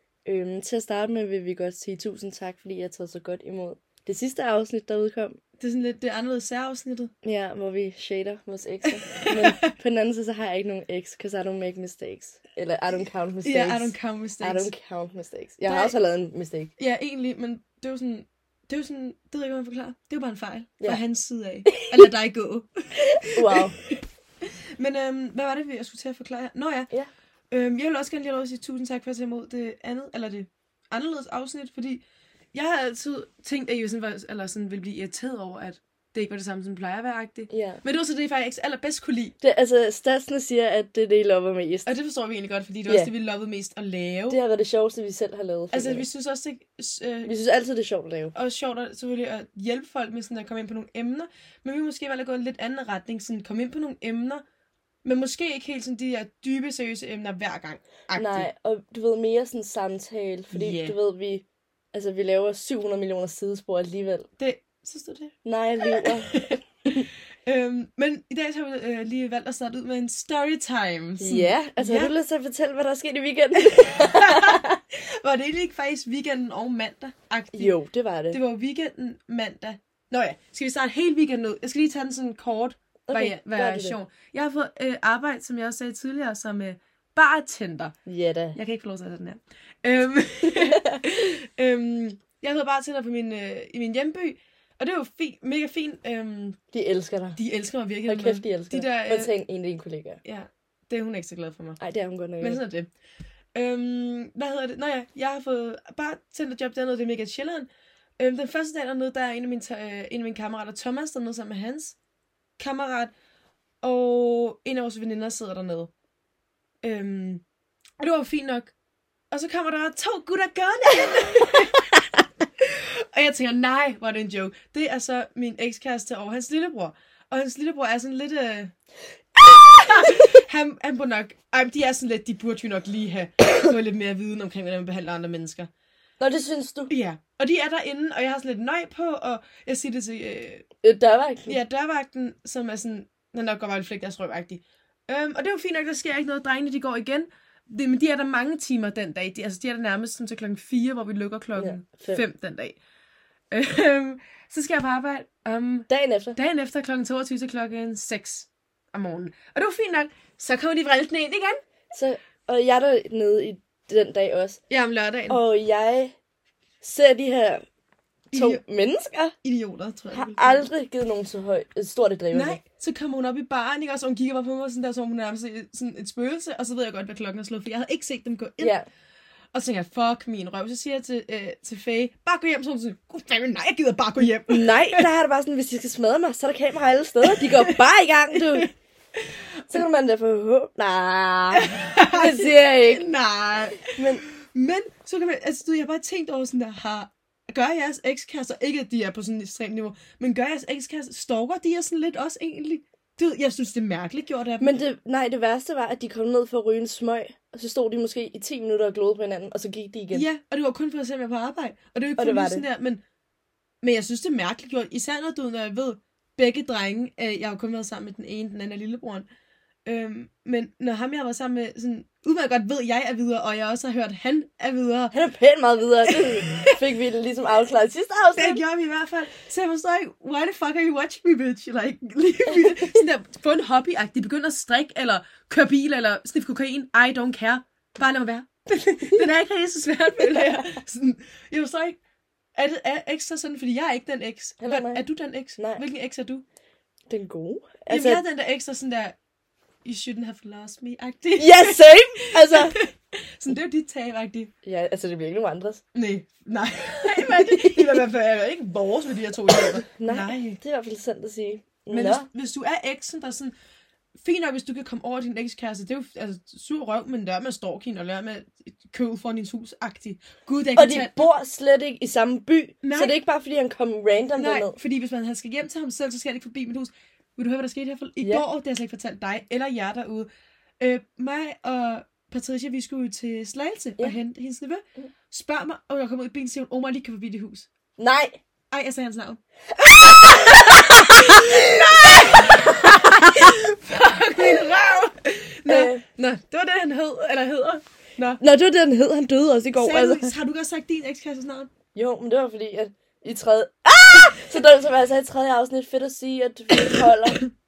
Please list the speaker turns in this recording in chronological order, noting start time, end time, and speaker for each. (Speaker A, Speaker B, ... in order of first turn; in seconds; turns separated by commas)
Speaker A: 0.3-5.4, Speaker B: 5.6-7.1, Speaker A: 7.2-16.7, Speaker B: 8.9-9.6, Speaker B: 13.4-14.7, Speaker B: 15.7-15.9, Speaker B: 16.8-26.9, Speaker A: 21.7-22.0, Speaker A: 23.0-23.8, Speaker B: 27.5-39.4, Speaker A: 37.5-37.8, Speaker A: 39.4-41.9, Speaker B: 41.9-44.4, Speaker A: 44.3-46.0, Speaker B: 45.7-47.3, Speaker A: 47.3-48.4, Speaker B: 48.4-54.4, Speaker B: 55.0-58.5, Speaker A: 58.1-64.3, Speaker B: 60.5-61.0, Speaker B: 64.4-66.6, Speaker A: 65.5-67.1, Speaker B: 67.5-72.1, Speaker A: 71.2-74.8, Speaker B: 73.6-77.7, Speaker A: 77.5-78.4, Speaker B: 78.3-88.0, Speaker A: 83.1-84.0, Speaker A: 88.1-88.6, Speaker B: 88.5-96.6, Speaker A: 90.5-91.0, Speaker A: 96.7-97.4, Speaker B: 97.4-99.3, Speaker A: 98.0-100.2, Speaker B: 100.2-101.8, Speaker A: 101.8-102.6, Speaker B: 102.4-102.9, Speaker B: 103.5-112.0, Speaker B: 112.6-113.1, Speaker B: 113.8-115.9, Speaker B: 116.8-117.4, Speaker B: 118.0-118.7, Speaker B: 119.3-122.0, Speaker B: 122.6-128.7, Speaker B: 129.4-135.7, Speaker A: 136.2-136.9, Speaker B: 136.9-140.7, Speaker A: 140.8-141.6, Speaker B: 141.5-152.8, Speaker A: 151.6-152.2, Speaker B: 153.5-161.6, Speaker A: 155.9-156.4, Speaker A: 161.9-164.6, Speaker B: 164.7-165.4, Speaker A: 165.3-166.1, Speaker A: 166.8-167.6, Speaker B: 168.3-168.6, Speaker A: 168.3-169.3, Speaker B: 169.4-170.7, Speaker A: 170.1-172.6, Speaker B: 172.3-178.7, Speaker A: 178.6-178.9, Speaker B: 179.5-185.1, Speaker A: 184.5-188.7, Speaker B: 187.2-187.8, Speaker B: 189.2-189.8, Speaker A: 189.7-193.1, Speaker B: 191.5-204.7, Speaker A: 193.8-194.2, Speaker A: 204.6-210.3, Speaker B: 210.1-213.0, Speaker A: 212.2-212.7, Speaker B: 213.8-219.3, Speaker B: 219.8-225.1, Speaker A: 225.1-228.6, Speaker B: 226.1-226.8, Speaker B: 228.4-242.0, Speaker A: 240.4-240.7, Speaker B: 242.6-246.4, Speaker A: 244.6-245.1, Speaker A: 245.6-245.8, Speaker A: 247.1-248.2, Speaker B: 247.9-249.2, Speaker B: 249.8-254.5, Speaker A: 251.4-252.8, Speaker A: 254.6-255.8, Speaker B: 255.9-260.6, Speaker A: 257.1-257.9, Speaker A: 259.7-262.3, Speaker B: 261.9-263.5, Speaker B: 264.2-271.3, Speaker A: 270.8-274.8, Speaker B: 272.8-273.2, Speaker B: 274.4-280.3, Speaker B: 280.8-287.7, Speaker A: 288.0-288.4, Speaker B: 288.7-298.4, Speaker A: 289.8-293.6, Speaker A: 295.7-296.0, Speaker A: 298.4-300.3, Speaker B: 299.8-301.7, Speaker A: 301.9-307.5